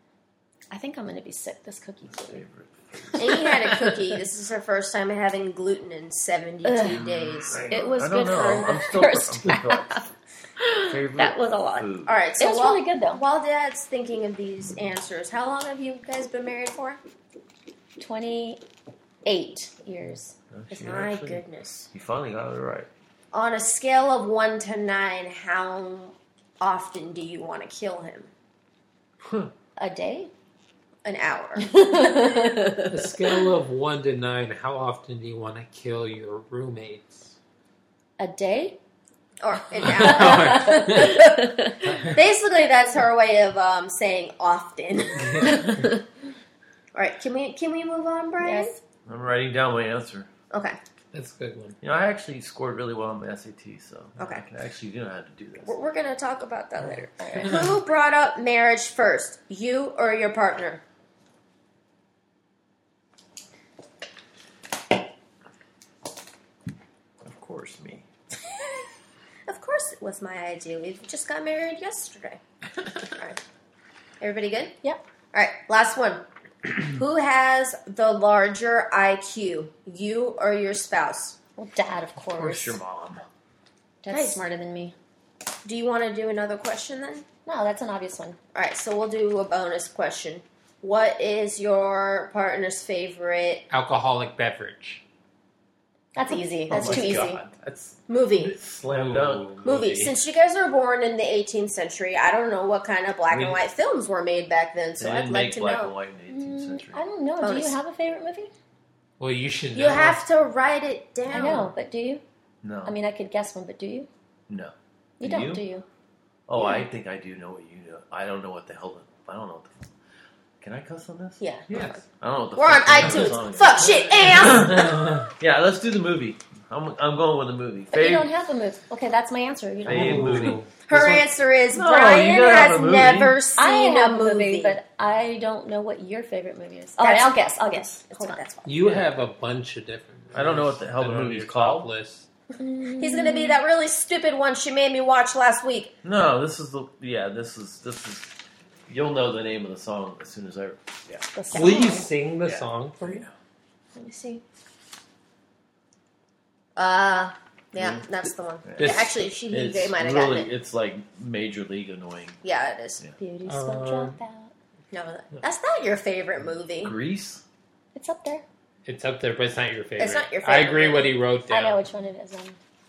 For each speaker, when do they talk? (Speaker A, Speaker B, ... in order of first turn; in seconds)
Speaker A: 0.7-2.4, 6.6-10.1, 10.6-13.2, 18.0-18.6, 19.2-20.3, 29.8-30.3, 31.6-32.9, 38.2-38.8, 39.9-42.0, 48.4-48.8, 57.2-57.6, 81.6-82.8, 84.0-84.9, 87.5-88.4, 96.1-97.4, 106.3-108.5, 111.3-112.2, 112.8-114.1, 115.2-115.8, 127.9-130.6, 133.5-138.4, 142.6-143.6, 151.3-152.1, 163.2-164.5, 167.9-168.4, 171.5-172.6
Speaker B: 2.1-3.2, 7.0-10.1, 10.9-12.1, 20.5-22.9, 29.2-29.5, 49.0-50.3, 51.8-55.7, 67.2-68.0, 82.3-83.2, 96.7-98.0, 98.5-99.5, 103.3-103.6, 105.0-107.0, 112.6-112.9, 114.5-115.6, 116.5-119.9, 120.6-121.4, 122.0-128.3, 129.8-133.3, 140.3-141.9, 146.0-148.3, 148.9-151.2, 152.4-153.3, 158.7-162.4, 166.8-167.4
Speaker C: 3.2-8.8, 12.1-17.0, 20.7-21.9, 23.3-28.3, 31.0-32.9, 39.4-45.9, 46.9-48.7, 50.5-50.8, 54.2-54.4, 55.6-60.8, 69.5-72.4, 73.0-73.4, 74.2-74.8, 75.3-76.2, 76.8-81.4, 84.1-84.4, 85.6-87.3, 88.5-93.6, 96.3-97.4, 98.1-98.6, 99.6-105.9, 107.4-107.8, 109.7-111.7, 121.4-122.0, 122.5-125.0, 130.8-134.8, 137.0-138.7, 143.0-145.9, 151.5-152.0, 153.9-154.4, 156.8-160.5, 162.4-163.0, 164.9-166.9, 170.0-171.1
Speaker D: 7.5-7.8, 32.9-37.3, 39.8-41.2, 41.9-42.1, 45.2-45.9, 51.1-51.8, 93.7-95.0, 98.9-100.1, 109.2-110.2, 121.7-122.0, 124.4-125.3, 129.9-130.7, 138.6-142.2, 151.5-153.2, 158.8-159.1, 163.4-164.2, 168.8-171.8